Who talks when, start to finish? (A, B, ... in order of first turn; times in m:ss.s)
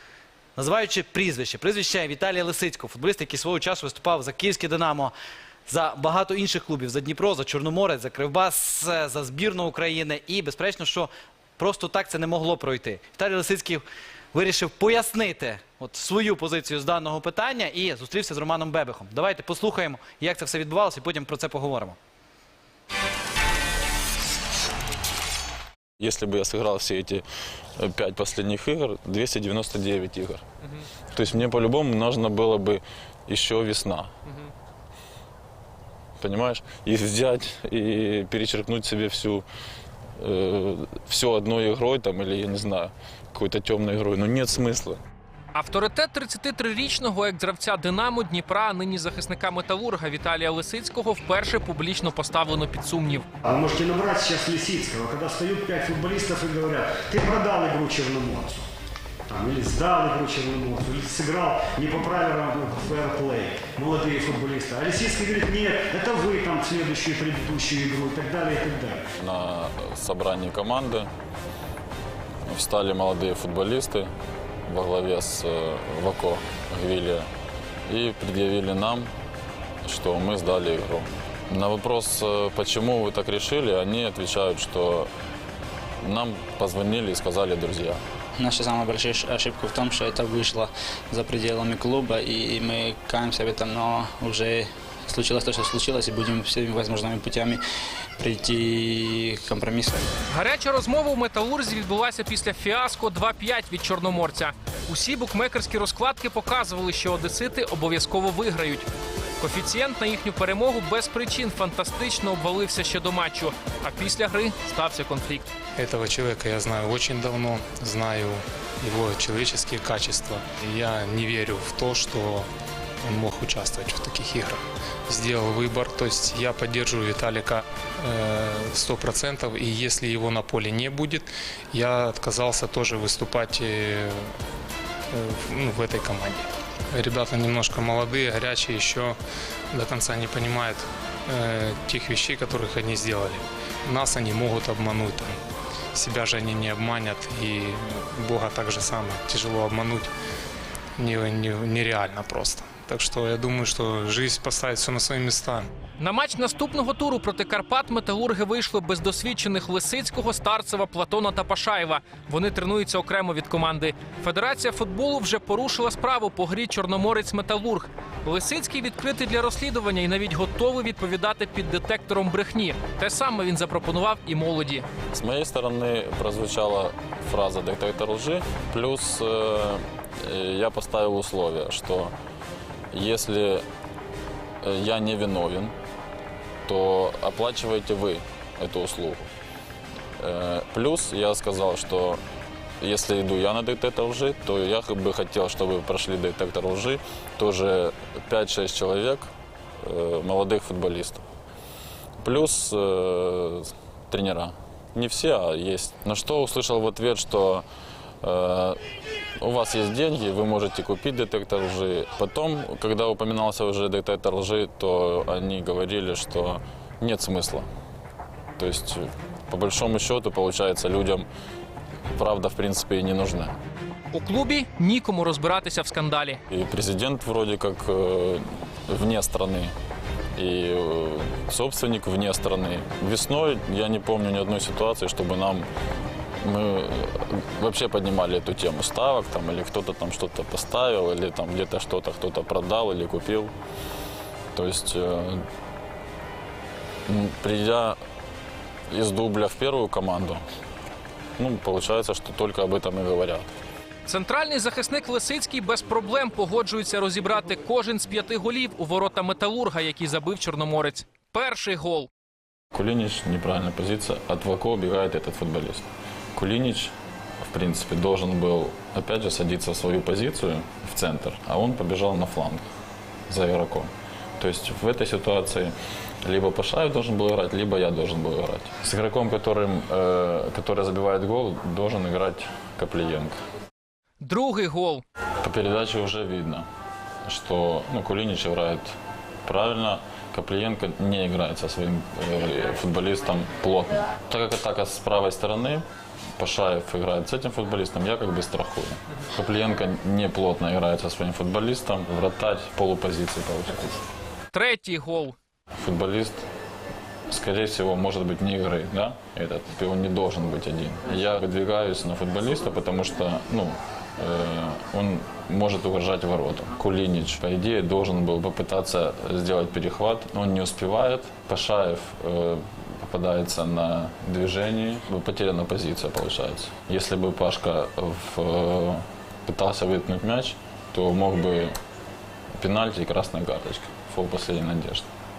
0:00.6-0:05.1 A
0:05.7-0:22.0 A
0:26.0-0:27.2 B
0:27.8-0:30.4 B
0:31.1-0:34.1 B
0:36.2-0:39.5 B
0:40.2-0:45.0 B
0:45.6-0:53.3 C
0:53.4-0:58.7 D
0:59.3-1:09.0 D
1:09.2-1:11.1 B
1:12.5-1:14.1 B
1:14.7-1:17.3 B
1:17.9-1:19.1 B
1:19.8-1:25.1 B
1:26.0-1:28.0 B
1:28.4-1:37.6 E
1:38.2-1:40.1 E
1:40.3-1:48.9 C
1:49.4-1:55.5 C
1:55.8-2:02.5 F
2:03.0-2:14.3 F
2:15.1-2:19.2 F
2:19.7-2:25.4 F
2:26.0-2:30.1 F
2:31.0-2:35.7 F
2:36.0-2:54.9 C
2:55.1-3:02.1 B
3:02.9-3:03.6 B
3:04.6-3:05.8 B
3:06.7-3:09.3 B
3:10.2-3:12.2 B
3:12.8-3:19.3 B
3:19.8-3:21.2 B
3:22.2-3:27.6 B
3:28.2-3:28.8 B
3:29.4-3:37.7 B
3:38.6-3:41.3 B
3:42.1-3:43.6 B
3:44.1-3:46.4 C
3:46.5-3:49.7 B
3:50.4-3:55.7 B
3:56.4-4:03.5 B
4:04.5-4:05.4 B
4:07.1-4:08.0 B
4:08.9-4:10.4 B
4:11.4-4:13.5 B
4:14.1-4:22.1 C
4:22.7-4:32.6 B
4:33.3-4:43.4 B
4:44.2-4:45.0 C
4:45.4-4:46.7 B
4:47.3-4:55.8 B
4:56.4-5:04.0 B
5:04.5-5:05.4 C
5:05.8-5:06.4 B
5:07.3-5:31.8 B
5:32.6-5:35.1 B